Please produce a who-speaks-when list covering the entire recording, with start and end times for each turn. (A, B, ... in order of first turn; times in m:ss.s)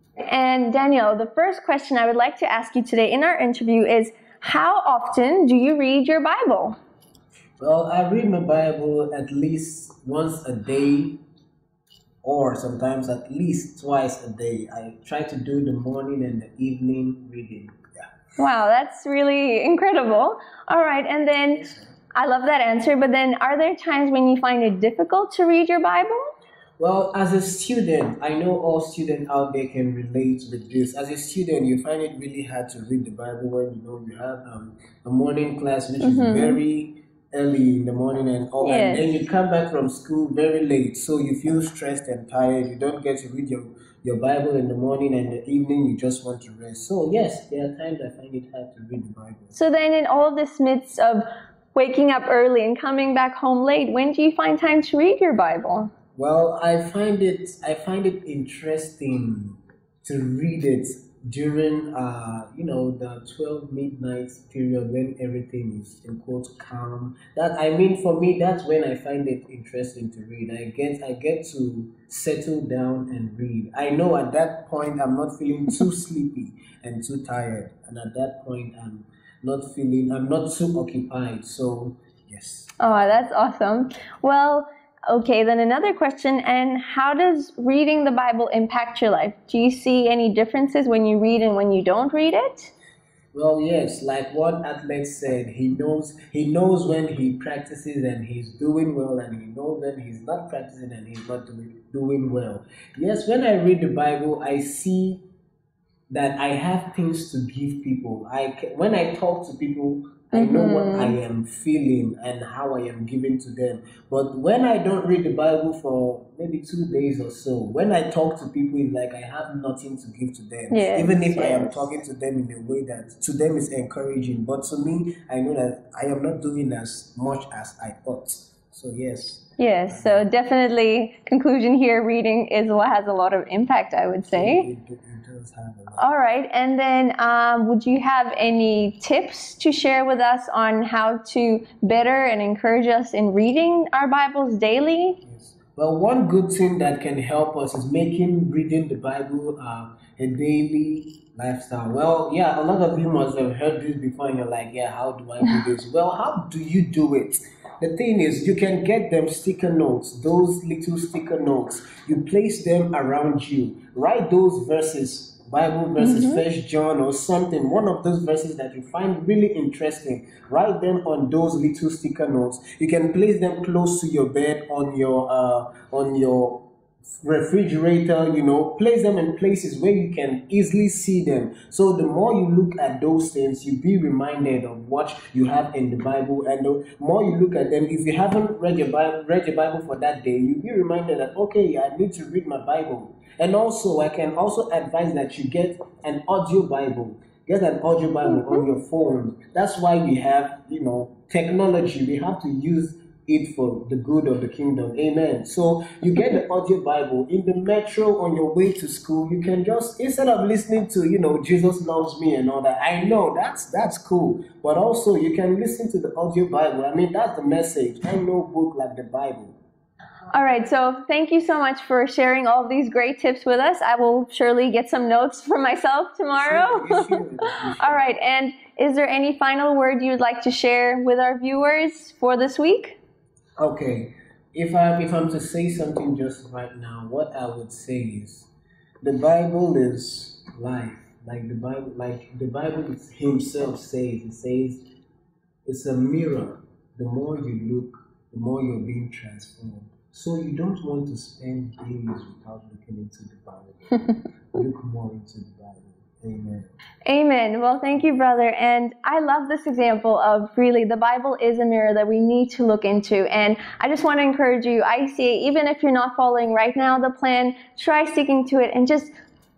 0:00.2-0:06.8 A
0:07.6-0:11.2 B
0:12.2-0:17.8 B
0:18.4-0:26.3 A
0:21.6-0:21.9 B
0:26.8-0:49.6 B
0:36.0-0:36.6 A
0:38.6-0:39.1 A
0:49.5-0:55.9 A
0:56.1-1:23.2 B
1:22.8-1:32.7 A
1:33.3-1:45.2 B
1:46.1-2:10.3 B
1:50.3-1:51.2 A
2:00.7-2:01.9 A
2:09.6-2:14.7 A
2:14.3-2:16.1 B
2:16.0-2:25.2 A
2:25.2-2:56.7 B
2:46.0-2:46.4 A
2:57.2-3:39.6 B
3:18.3-3:18.6 A
3:40.3-3:47.2 A
3:46.3-3:48.1 B
3:47.8-3:53.0 A
3:53.6-3:58.5 B
3:59.0-4:04.8 B
4:05.6-4:16.7 B
4:17.0-4:29.1 A